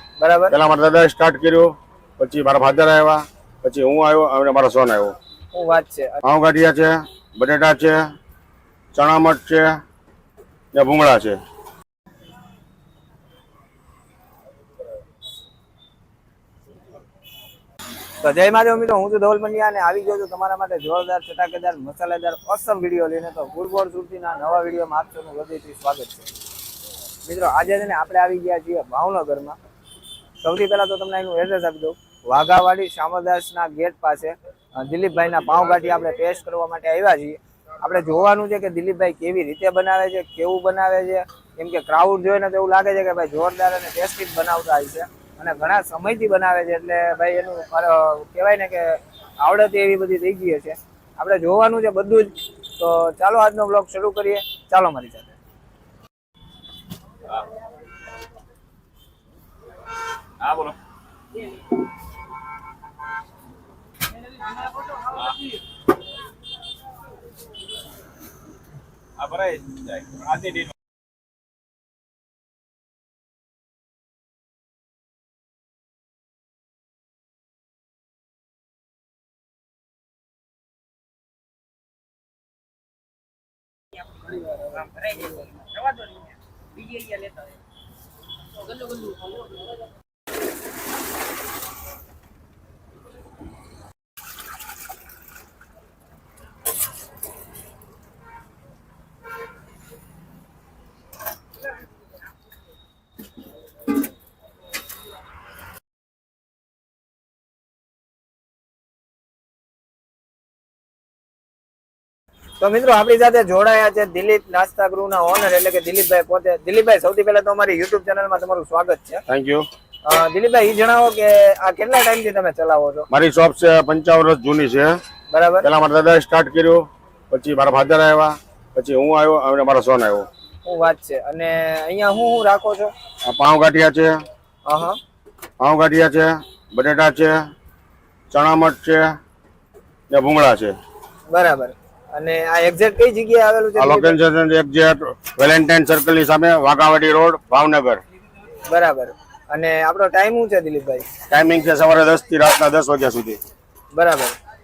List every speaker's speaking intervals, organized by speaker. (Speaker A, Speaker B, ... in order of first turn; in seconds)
Speaker A: 0.2-0.6, 5.5-6.2, 18.2-26.3, 27.2-29.6, 30.4-55.4, 84.8-85.2, 112.6-119.2, 120.0-123.1, 125.3-125.7, 130.7-132.9, 134.7-135.0, 141.3-144.2, 148.7-151.1, 153.9-154.4
Speaker B: 0.5-5.2, 6.2-8.0, 8.9-9.8, 10.7-11.4, 119.3-119.7, 123.1-125.0, 125.6-130.3, 133.3-134.2, 135.6-137.5, 138.3-139.2, 140.1-140.8, 143.8-148.0, 151.3-153.4
Speaker C: 60.4-60.8, 69.2-70.7, 87.0-87.3